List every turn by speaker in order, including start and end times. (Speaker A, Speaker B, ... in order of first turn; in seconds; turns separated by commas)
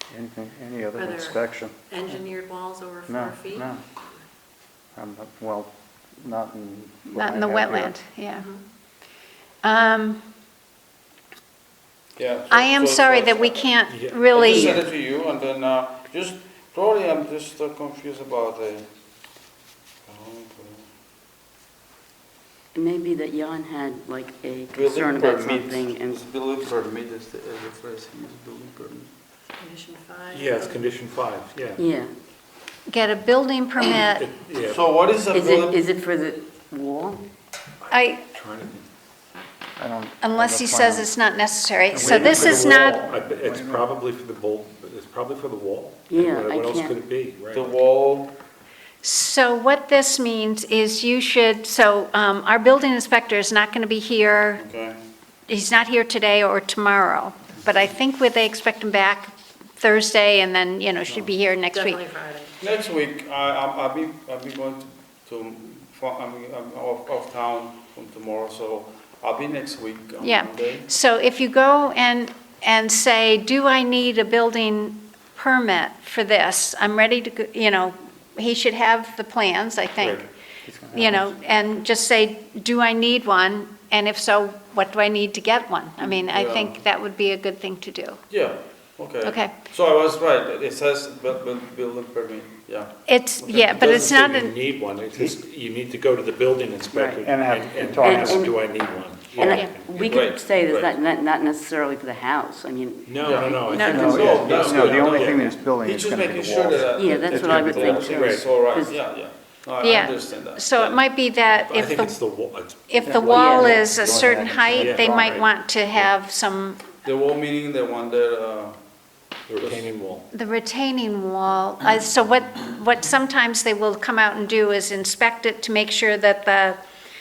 Speaker A: 0.1-1.8, Speaker B: 1.0-3.7, Speaker A: 3.1-3.8, Speaker A: 5.0-8.0, Speaker C: 7.2-8.5, Speaker B: 8.4-8.6, Speaker C: 9.6-10.2, Speaker D: 12.2-13.8, Speaker C: 12.5-14.8, Speaker E: 13.9-14.3, Speaker D: 14.3-18.9, Speaker F: 14.4-14.8, Speaker D: 20.1-20.9, Speaker F: 22.7-26.2, Speaker D: 24.8-29.1, Speaker A: 24.9-25.5, Speaker B: 29.6-30.8, Speaker E: 30.3-31.8, Speaker F: 31.8-32.1, Speaker C: 32.9-34.3, Speaker E: 34.2-34.8, Speaker D: 34.6-35.8, Speaker F: 35.3-37.3, Speaker E: 37.8-38.9, Speaker C: 37.9-38.2, Speaker A: 39.8-41.1, Speaker C: 40.2-43.0, Speaker A: 41.9-43.9, Speaker E: 42.0-47.7, Speaker F: 46.1-47.0, Speaker D: 47.5-48.3, Speaker C: 49.0-54.6, Speaker D: 54.6-55.0, Speaker C: 55.5-62.0, Speaker B: 61.7-62.6, Speaker D: 62.6-70.9, Speaker C: 70.2-80.3, Speaker D: 80.0-80.3, Speaker A: 80.6-81.3, Speaker C: 80.9-88.2, Speaker D: 86.0-86.8, Speaker D: 88.3-94.0, Speaker C: 89.2-89.5, Speaker C: 93.1-94.5, Speaker E: 93.7-99.9, Speaker F: 96.9-97.2, Speaker A: 97.2-98.5, Speaker F: 98.0-98.6, Speaker D: 99.3-100.9, Speaker F: 99.3-104.5, Speaker E: 103.1-105.6, Speaker D: 103.2-103.6, Speaker C: 103.7-104.1, Speaker A: 103.9-108.1, Speaker D: 104.1-111.0, Speaker F: 106.9-109.0, Speaker E: 108.1-108.4, Speaker C: 109.8-112.2, Speaker E: 111.7-113.1, Speaker C: 112.9-116.8, Speaker A: 113.0-115.4, Speaker F: 113.2-113.8, Speaker E: 114.8-115.4, Speaker D: 117.0-118.8, Speaker E: 119.5-120.3, Speaker D: 119.6-119.8, Speaker C: 120.3-126.8